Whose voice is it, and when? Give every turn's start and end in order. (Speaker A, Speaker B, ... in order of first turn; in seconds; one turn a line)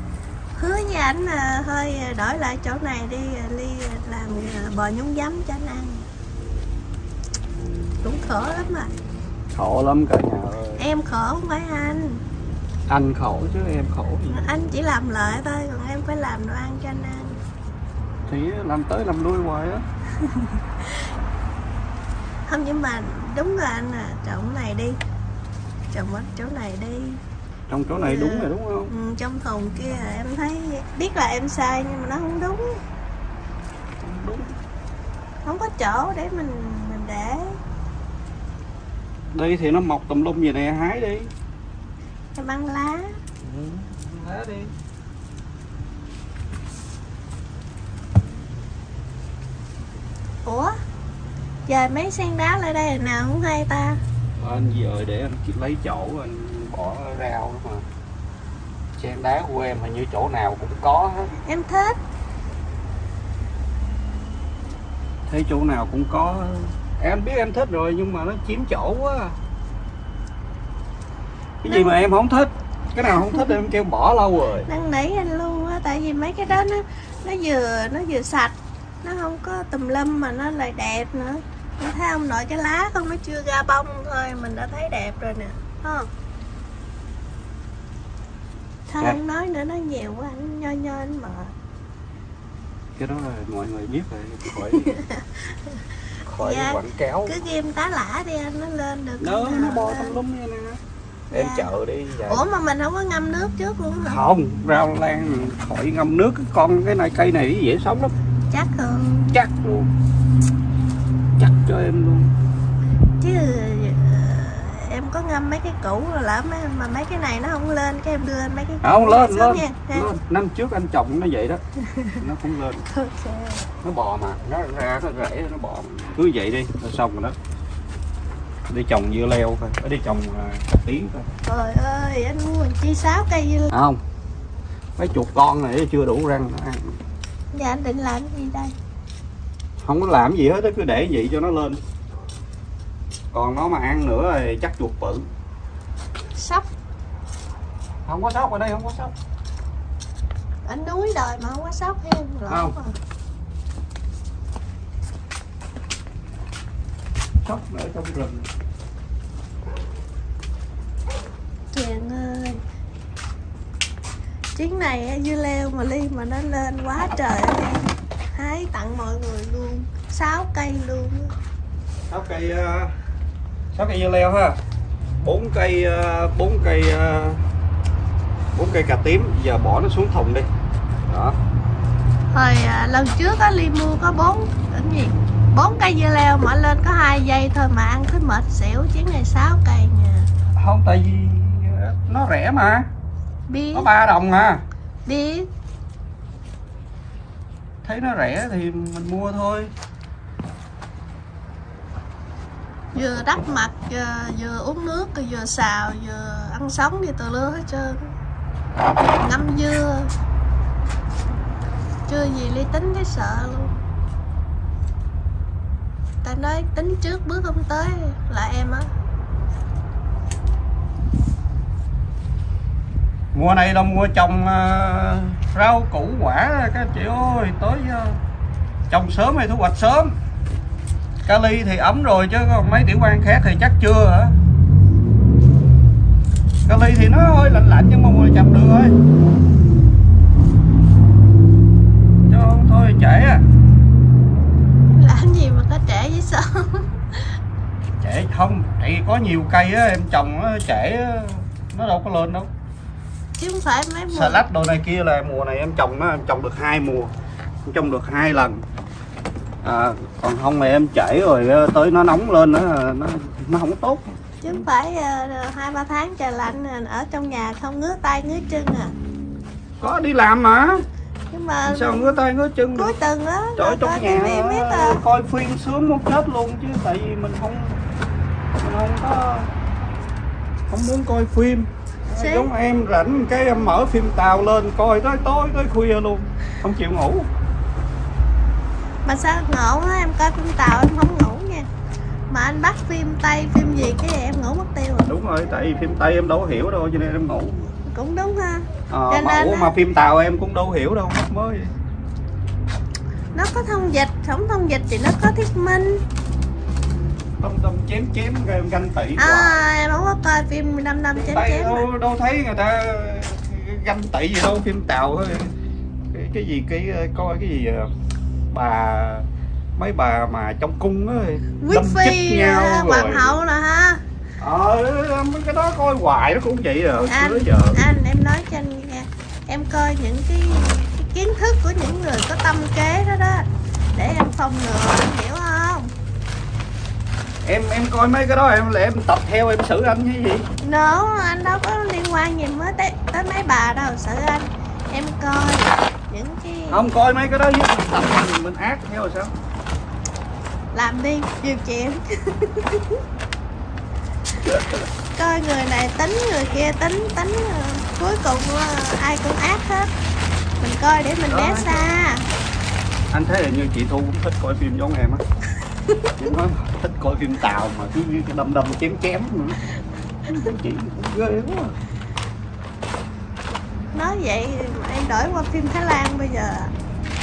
Speaker A: 0.6-6.1
Speaker A: 8.0-8.9
Speaker B: 9.5-10.8
Speaker A: 10.8-12.2
Speaker B: 12.9-14.4
Speaker A: 14.3-17.4
Speaker B: 18.3-19.8
Speaker A: 20.2-20.9
Speaker A: 22.5-25.0
Speaker A: 25.9-27.2
Speaker B: 27.7-28.9
Speaker A: 27.9-32.8
Speaker B: 34.0-34.5
Speaker A: 35.5-37.6
Speaker B: 39.3-41.3
Speaker A: 42.4-43.2
Speaker B: 43.4-44.7
Speaker A: 50.5-50.7
Speaker A: 51.7-54.0
Speaker B: 54.4-57.9
Speaker B: 59.0-61.3
Speaker A: 61.4-62.0
Speaker B: 65.3-69.4
Speaker B: 71.6-74.7
Speaker A: 71.7-72.0
Speaker A: 74.7-86.1
Speaker A: 88.9-91.5
Speaker B: 93.0-95.0
Speaker A: 94.7-95.8
Speaker B: 96.2-97.3
Speaker A: 96.4-100.2
Speaker B: 99.2-100.8
Speaker B: 101.3-102.4
Speaker A: 101.3-101.7
Speaker A: 102.3-104.2
Speaker B: 104.0-108.1
Speaker A: 108.5-109.4
Speaker B: 109.3-109.9
Speaker B: 111.4-112.3
Speaker A: 113.2-120.1
Speaker B: 118.8-121.6
Speaker A: 121.8-122.2
Speaker B: 122.2-122.8
Speaker A: 122.9-123.7
Speaker B: 123.8-127.4
Speaker B: 128.7-131.3
Speaker A: 131.5-133.7
Speaker B: 133.7-134.0
Speaker B: 135.0-137.0
Speaker A: 137.5-138.7
Speaker B: 139.8-141.8
Speaker B: 143.3-145.3
Speaker A: 146.4-146.7
Speaker B: 148.1-149.1
Speaker A: 150.7-153.0
Speaker B: 152.5-152.8
Speaker B: 157.4-158.5
Speaker A: 161.7-162.6
Speaker A: 164.6-171.3
Speaker B: 172.1-172.9
Speaker B: 173.7-174.6
Speaker B: 175.2-177.4
Speaker B: 178.5-180.5
Speaker B: 181.1-181.4
Speaker A: 182.3-190.3
Speaker B: 190.6-192.9
Speaker A: 193.5-193.9
Speaker B: 193.7-194.6
Speaker A: 195.1-195.5
Speaker B: 197.8-199.7
Speaker A: 202.9-208.1
Speaker A: 209.2-210.1
Speaker A: 212.1-213.8
Speaker A: 216.2-218.9
Speaker B: 223.3-228.2
Speaker B: 228.9-230.2
Speaker B: 231.2-234.4
Speaker B: 236.7-239.0
Speaker B: 242.3-243.4
Speaker A: 244.9-247.2
Speaker B: 248.0-252.5
Speaker A: 253.4-254.4
Speaker B: 254.1-257.1
Speaker B: 257.7-258.6
Speaker B: 259.6-264.6
Speaker A: 264.4-268.9
Speaker B: 269.8-270.8
Speaker A: 271.3-272.2
Speaker B: 271.7-273.0
Speaker A: 272.8-275.0
Speaker B: 273.6-277.8
Speaker B: 278.6-279.5
Speaker B: 280.7-287.3
Speaker A: 282.2-282.5
Speaker A: 289.1-291.7
Speaker A: 292.3-295.1
Speaker B: 295.1-297.7
Speaker A: 297.9-299.7
Speaker B: 298.9-301.7
Speaker A: 303.4-306.0
Speaker B: 307.4-309.6
Speaker A: 309.2-311.9
Speaker B: 311.1-315.5
Speaker B: 316.1-317.9
Speaker B: 318.5-323.4
Speaker A: 321.6-324.0
Speaker B: 324.4-327.8
Speaker A: 327.1-335.9
Speaker B: 337.4-340.5
Speaker A: 340.6-346.9
Speaker B: 346.7-349.3
Speaker A: 350.7-353.0
Speaker B: 354.4-354.8
Speaker A: 355.2-359.9
Speaker A: 360.6-362.3
Speaker B: 361.3-361.9
Speaker B: 363.1-365.2
Speaker B: 366.2-369.6
Speaker B: 370.3-371.8
Speaker A: 373.9-376.7